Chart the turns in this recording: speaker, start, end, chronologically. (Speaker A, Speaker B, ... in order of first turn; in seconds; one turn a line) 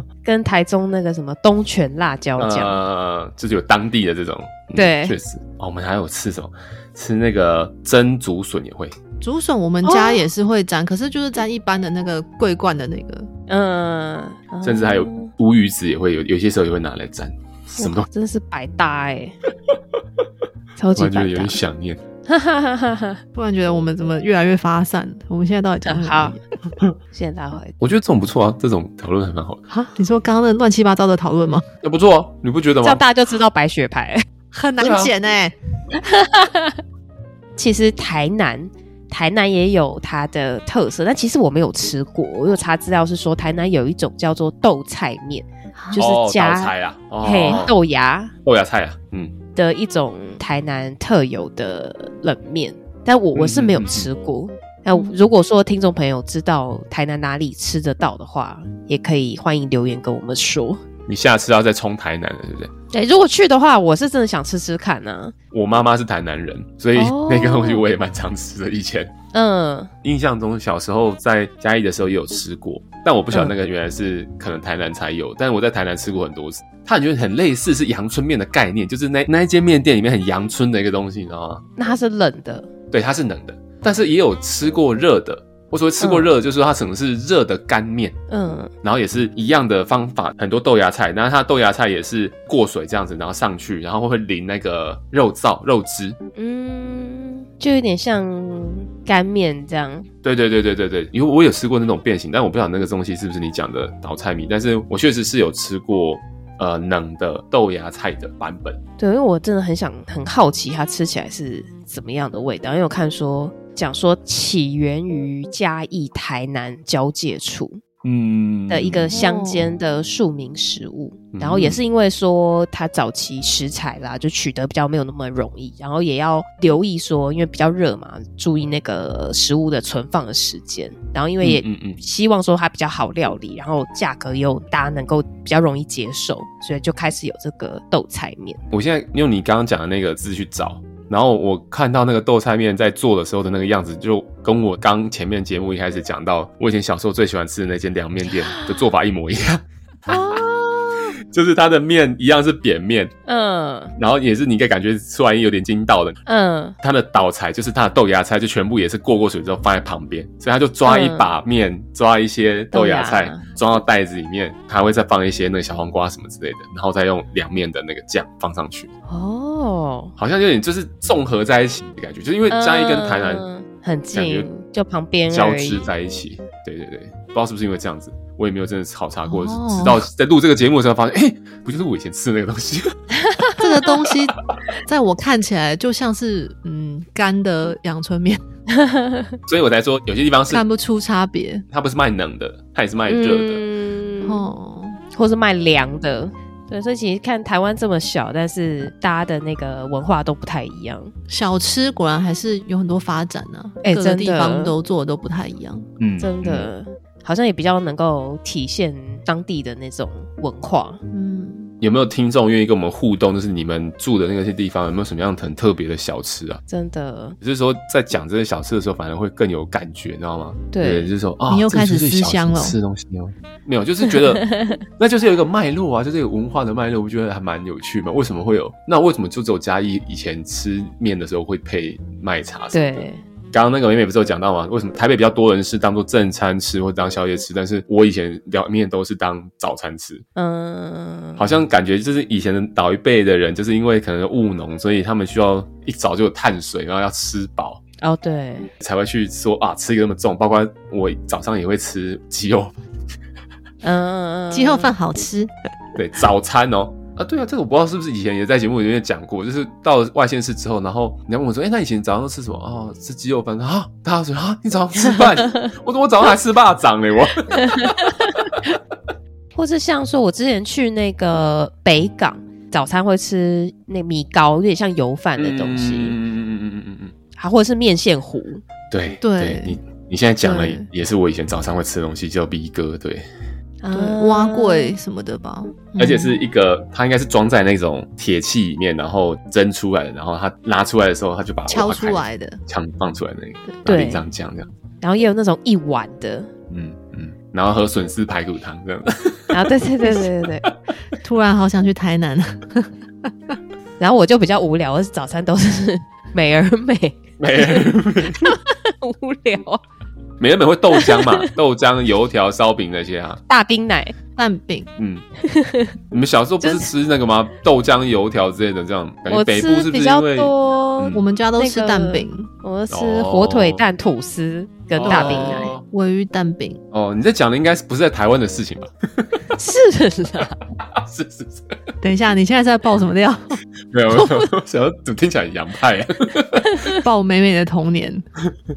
Speaker A: 0.2-2.8
Speaker B: 2.4-9.0
Speaker A: 4.8-5.2
Speaker C: 9.2-13.3
Speaker A: 9.8-10.2
Speaker A: 13.5-15.3
Speaker B: 14.6-18.1
Speaker A: 17.8-19.4
Speaker A: 20.8-21.6
Speaker B: 20.9-22.0
Speaker A: 22.3-23.2
Speaker C: 23.4-26.4
Speaker A: 25.9-26.4
Speaker A: 27.1-27.8
Speaker B: 27.8-29.6
Speaker C: 29.7-31.6
Speaker B: 31.8-33.0
Speaker A: 32.8-34.2
Speaker C: 34.5-35.5
Speaker B: 34.8-35.1
Speaker A: 36.0-36.8
Speaker A: 37.6-48.3
Speaker B: 46.0-47.8
Speaker B: 48.5-49.4
Speaker A: 49.6-60.8
Speaker B: 53.4-54.1
Speaker B: 61.1-62.7
Speaker A: 62.9-65.3
Speaker B: 65.5-69.1
Speaker A: 67.0-67.8
Speaker A: 69.3-69.9
Speaker B: 70.0-81.6
Speaker A: 81.8-82.7
Speaker B: 82.9-88.2
Speaker A: 86.0-86.3
Speaker A: 88.3-88.7
Speaker B: 88.8-96.2
Speaker A: 96.4-100.1
Speaker B: 100.2-108.8
Speaker A: 109.0-117.8
Speaker B: 118.0-119.1
Speaker A: 118.7-138.6
Speaker C: 119.1-119.7
Speaker B: 121.3-121.8
Speaker B: 131.4-132.0
Speaker B: 138.7-150.4
Speaker A: 148.5-148.8
Speaker A: 150.1-151.1
Speaker B: 151.3-153.1
Speaker A: 153.3-153.9
Speaker B: 154.0-156.2
Speaker A: 156.3-156.8
Speaker B: 156.8-168.9
Speaker A: 160.9-161.3
Speaker A: 162.7-163.4
Speaker A: 169.1-170.1
Speaker B: 170.2-173.4
Speaker A: 172.5-175.9
Speaker B: 174.1-174.5
Speaker B: 175.3-183.0
Speaker C: 179.3-180.0
Speaker C: 183.6-188.4
Speaker A: 188.7-189.4
Speaker B: 189.5-190.6
Speaker C: 190.5-191.7
Speaker B: 191.7-193.6
Speaker A: 193.1-194.5
Speaker C: 194.2-195.0
Speaker A: 195.1-201.1
Speaker C: 201.3-205.9
Speaker A: 203.8-204.8
Speaker B: 206.0-206.7
Speaker A: 206.2-211.0
Speaker C: 211.1-211.7
Speaker B: 211.8-216.6
Speaker A: 216.7-217.4
Speaker B: 217.4-224.5
Speaker A: 220.7-221.1
Speaker C: 221.5-222.8
Speaker A: 224.4-224.8
Speaker B: 225.0-240.2
Speaker A: 232.7-233.2
Speaker A: 240.4-241.5
Speaker B: 241.4-247.8
Speaker A: 248.0-248.7
Speaker B: 248.8-252.8
Speaker A: 253.8-254.9
Speaker C: 254.5-255.5
Speaker B: 256.0-268.0
Speaker A: 267.6-268.8
Speaker A: 269.6-276.1
Speaker B: 275.4-277.1
Speaker A: 277.4-278.6
Speaker B: 278.9-283.2
Speaker C: 279.2-279.8
Speaker A: 280.4-280.8
Speaker A: 283.8-284.9
Speaker C: 283.9-286.4
Speaker B: 286.0-294.7
Speaker C: 291.7-292.6
Speaker A: 293.9-294.2
Speaker A: 295.0-296.5
Speaker B: 296.7-299.6
Speaker A: 299.5-300.7
Speaker C: 301.2-302.9
Speaker A: 304.0-307.7
Speaker B: 307.4-308.5
Speaker A: 308.4-309.8
Speaker B: 310.4-313.4
Speaker A: 311.0-311.5
Speaker A: 313.5-314.1
Speaker C: 314.4-314.9
Speaker B: 315.0-315.2
Speaker A: 315.4-315.9
Speaker B: 316.1-321.2
Speaker A: 316.6-316.9
Speaker A: 319.3-325.7
Speaker C: 321.1-322.5
Speaker B: 322.9-323.8
Speaker B: 324.9-325.8
Speaker C: 325.0-326.8
Speaker B: 326.9-329.3
Speaker A: 329.6-330.6
Speaker B: 330.9-331.8
Speaker C: 332.0-333.6
Speaker B: 333.9-336.9
Speaker A: 336.6-337.0
Speaker C: 337.0-338.2